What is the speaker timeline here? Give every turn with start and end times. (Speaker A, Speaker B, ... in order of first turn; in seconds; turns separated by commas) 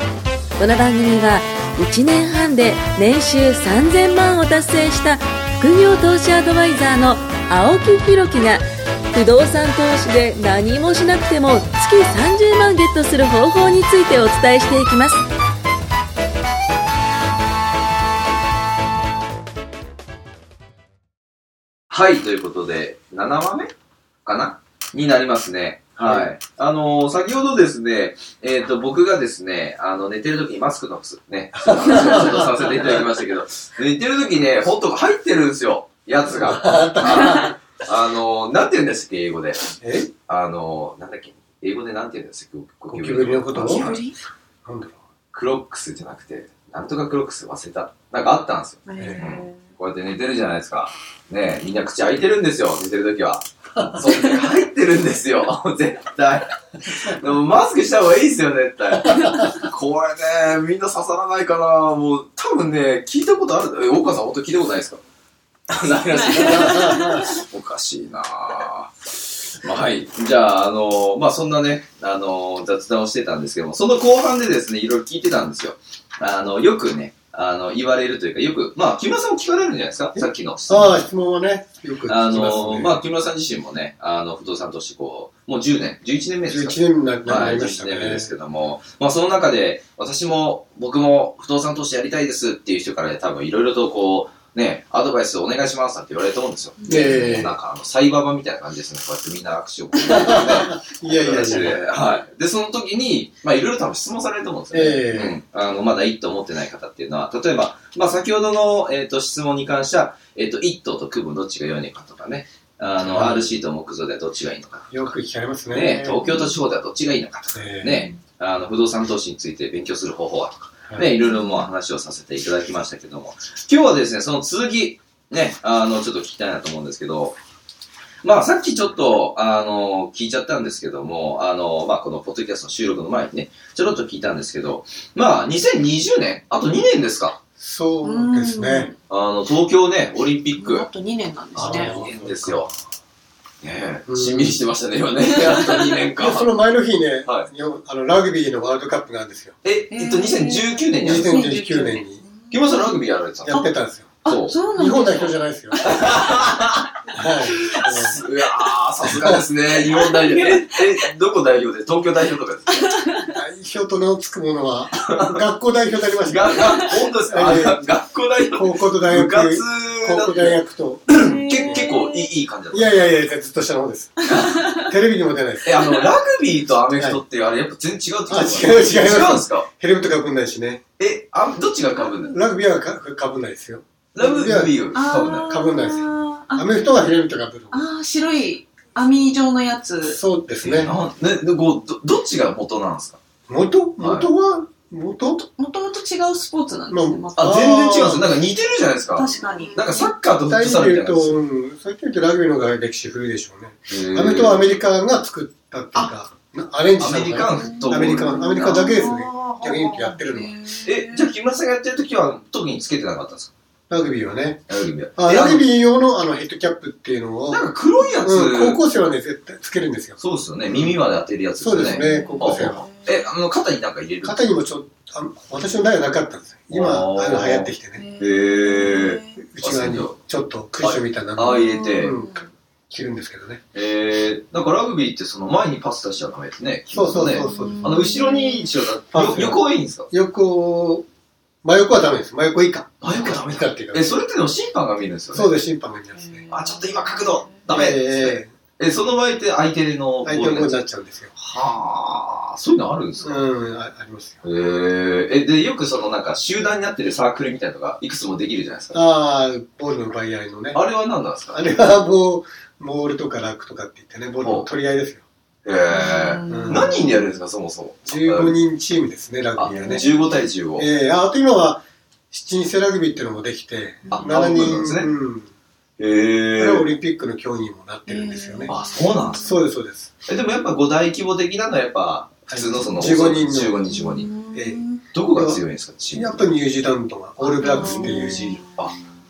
Speaker A: 0.6-15.2, Speaker B: 21.9-23.7, Speaker B: 24.2-39.7, Speaker C: 26.0-26.3, Speaker C: 31.6-32.9, Speaker C: 36.2-37.6, Speaker C: 39.8-40.1, Speaker B: 40.3-44.0, Speaker C: 42.9-43.9, Speaker D: 43.7-44.2, Speaker C: 44.6-45.0, Speaker B: 45.3-65.0, Speaker D: 48.9-49.7, Speaker C: 49.0-49.2, Speaker B: 65.7-68.9, Speaker D: 66.0-67.4, Speaker C: 66.7-67.1, Speaker B: 69.6-81.1, Speaker C: 80.2-83.0, Speaker B: 82.1-115.1, Speaker C: 86.5-88.3, Speaker D: 96.8-97.3, Speaker C: 96.9-97.6, Speaker C: 100.0-101.8, Speaker C: 104.7-105.4, Speaker C: 113.0-113.5, Speaker C: 114.9-116.2, Speaker B: 115.7-127.4, Speaker D: 116.2-116.6, Speaker C: 117.5-118.0, Speaker D: 117.8-118.1, Speaker D: 121.2-121.7, Speaker B: 128.2-137.4, Speaker C: 137.6-138.9, Speaker D: 138.0-138.9, Speaker B: 139.1-140.9, Speaker D: 140.5-142.0, Speaker C: 141.6-142.8, Speaker B: 141.6-142.7, Speaker B: 143.6-146.5, Speaker C: 144.1-144.6, Speaker D: 145.2-146.1, Speaker C: 146.2-149.6, Speaker B: 149.6-151.5, Speaker D: 149.9-152.9, Speaker C: 151.0-152.2, Speaker B: 152.5-153.6, Speaker C: 153.4-154.1, Speaker D: 154.2-155.3, Speaker B: 154.3-154.6, Speaker C: 154.7-156.2, Speaker B: 155.9-156.9, Speaker C: 157.1-158.2, Speaker B: 157.5-162.9, Speaker C: 159.2-159.4, Speaker D: 159.8-161.0, Speaker D: 162.7-163.4, Speaker C: 163.3-167.9, Speaker B: 166.3-173.0, Speaker C: 168.5-171.9, Speaker D: 171.1-172.3, Speaker C: 172.7-175.9, Speaker D: 174.3-174.9, Speaker B: 174.3-174.7, Speaker B: 175.6-179.7, Speaker C: 176.9-177.2, Speaker C: 178.3-180.8, Speaker B: 181.0-182.3, Speaker C: 182.1-187.9, Speaker B: 184.1-185.5, Speaker D: 184.9-186.8, Speaker D: 187.7-190.2, Speaker C: 190.0-190.9, Speaker B: 190.6-193.2, Speaker C: 193.5-195.5, Speaker B: 194.0-194.3, Speaker D: 195.6-197.7, Speaker C: 196.9-198.3, Speaker B: 197.4-201.4, Speaker D: 199.1-200.1, Speaker C: 200.4-210.7, Speaker B: 203.9-204.7, Speaker B: 207.0-209.9, Speaker D: 208.4-209.2, Speaker D: 210.1-211.3, Speaker B: 210.8-213.5, Speaker C: 213.9-214.6, Speaker B: 214.7-215.7, Speaker C: 215.2-217.6, Speaker B: 217.5-218.8, Speaker C: 218.2-221.0, Speaker B: 220.2-224.5, Speaker C: 221.6-222.9, Speaker D: 221.9-223.2, Speaker C: 224.2-228.1, Speaker B: 226.7-230.2, Speaker D: 228.0-229.4, Speaker C: 229.4-233.6, Speaker B: 230.8-232.1, Speaker D: 231.5-232.5, Speaker B: 233.7-240.1, Speaker C: 236.9-238.1, Speaker D: 237.4-238.7, Speaker C: 239.1-241.1, Speaker C: 241.6-244.2, Speaker B: 243.0-245.6, Speaker C: 245.3-246.5, Speaker D: 246.3-247.6, Speaker B: 246.5-250.8, Speaker C: 247.7-248.5, Speaker C: 250.2-251.3, Speaker B: 251.4-253.5, Speaker C: 253.2-254.4, Speaker B: 254.4-259.0, Speaker C: 258.9-260.8, Speaker B: 260.7-261.7, Speaker C: 261.5-265.2, Speaker B: 264.4-264.7, Speaker B: 265.6-268.6, Speaker D: 265.9-267.3, Speaker C: 266.5-267.0, Speaker C: 268.1-270.1, Speaker B: 269.6-270.9, Speaker D: 269.7-270.2, Speaker C: 270.8-275.5, Speaker B: 274.1-275.1, Speaker B: 276.0-276.9, Speaker C: 276.6-278.7, Speaker D: 278.1-279.5, Speaker B: 278.7-279.6, Speaker C: 279.4-280.2, Speaker B: 280.3-284.3, Speaker C: 282.5-283.8, Speaker D: 283.9-285.0, Speaker C: 284.5-288.5, Speaker B: 285.1-286.5, Speaker D: 287.4-289.1, Speaker B: 287.6-288.9